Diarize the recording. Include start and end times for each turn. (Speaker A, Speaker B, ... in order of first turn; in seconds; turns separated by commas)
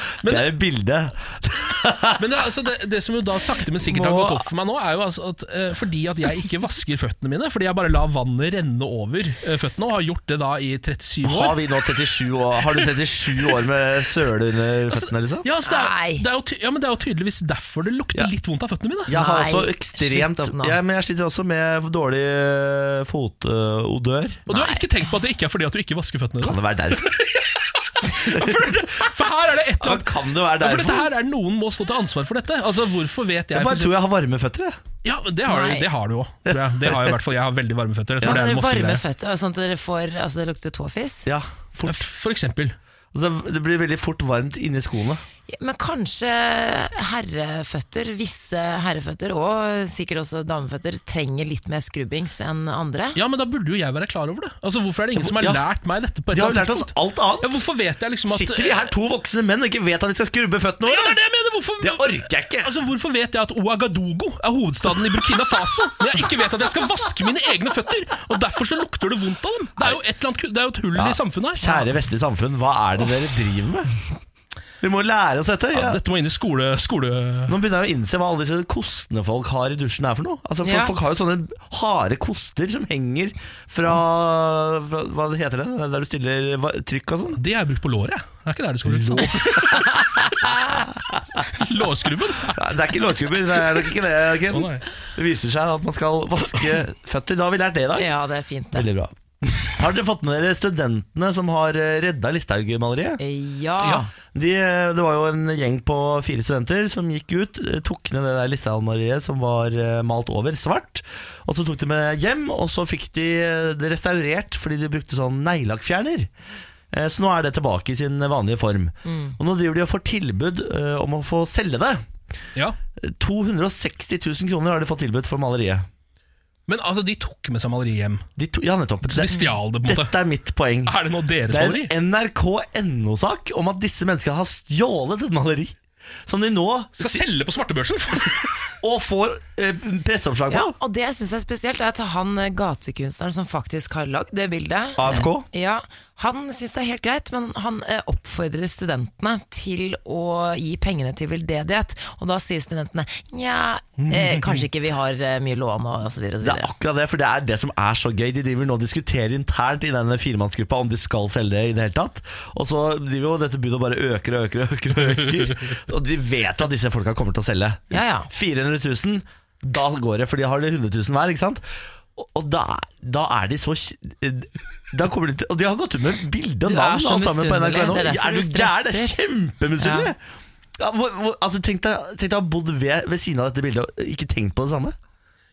Speaker A: 0.2-0.5, Speaker B: 0.2-2.2, Speaker A: 2.2-11.6, Speaker C: 3.9-4.4, Speaker B: 11.2-15.4, Speaker A: 14.9-19.1, Speaker C: 15.6-16.2, Speaker B: 19.1-24.4, Speaker C: 19.1-20.8, Speaker A: 24.5-33.9, Speaker C: 24.5-24.9, Speaker B: 26.4-27.2, Speaker B: 28.3-29.0, Speaker B: 29.8-31.1, Speaker B: 33.5-34.8, Speaker A: 35.0-39.0, Speaker C: 35.5-35.9, Speaker B: 36.5-37.1, Speaker C: 38.2-41.3, Speaker B: 41.2-42.1, Speaker A: 41.9-42.8, Speaker B: 43.1-45.2, Speaker C: 45.5-53.2, Speaker A: 53.1-58.9, Speaker B: 55.2-55.6, Speaker B: 56.3-57.6, Speaker B: 58.3-61.2, Speaker A: 60.8-71.8, Speaker B: 61.8-62.7, Speaker B: 70.9-73.9, Speaker B: 74.8-76.0, Speaker A: 75.7-77.6, Speaker B: 77.5-87.4, Speaker C: 80.6-80.9, Speaker A: 87.3-89.8, Speaker B: 88.8-89.9, Speaker C: 89.7-90.8, Speaker B: 90.9-91.5, Speaker A: 91.5-92.6, Speaker B: 92.4-98.1, Speaker A: 94.5-94.8, Speaker C: 98.0-98.9, Speaker B: 98.7-103.2, Speaker C: 103.2-104.1, Speaker A: 103.8-104.0, Speaker B: 104.3-116.3, Speaker B: 116.9-122.0, Speaker C: 119.0-119.4, Speaker B: 123.0-125.8, Speaker A: 126.7-128.2, Speaker B: 128.4-130.9, Speaker A: 129.0-130.1, Speaker A: 130.8-131.9, Speaker B: 131.5-137.2, Speaker A: 136.9-138.5, Speaker B: 138.8-140.7, Speaker C: 140.5-156.7, Speaker B: 145.0-145.4, Speaker A: 154.1-154.6, Speaker B: 156.4-171.6, Speaker C: 167.9-168.3, Speaker B: 172.2-180.2, Speaker C: 176.6-179.2, Speaker C: 179.8-180.1, Speaker B: 180.8-184.9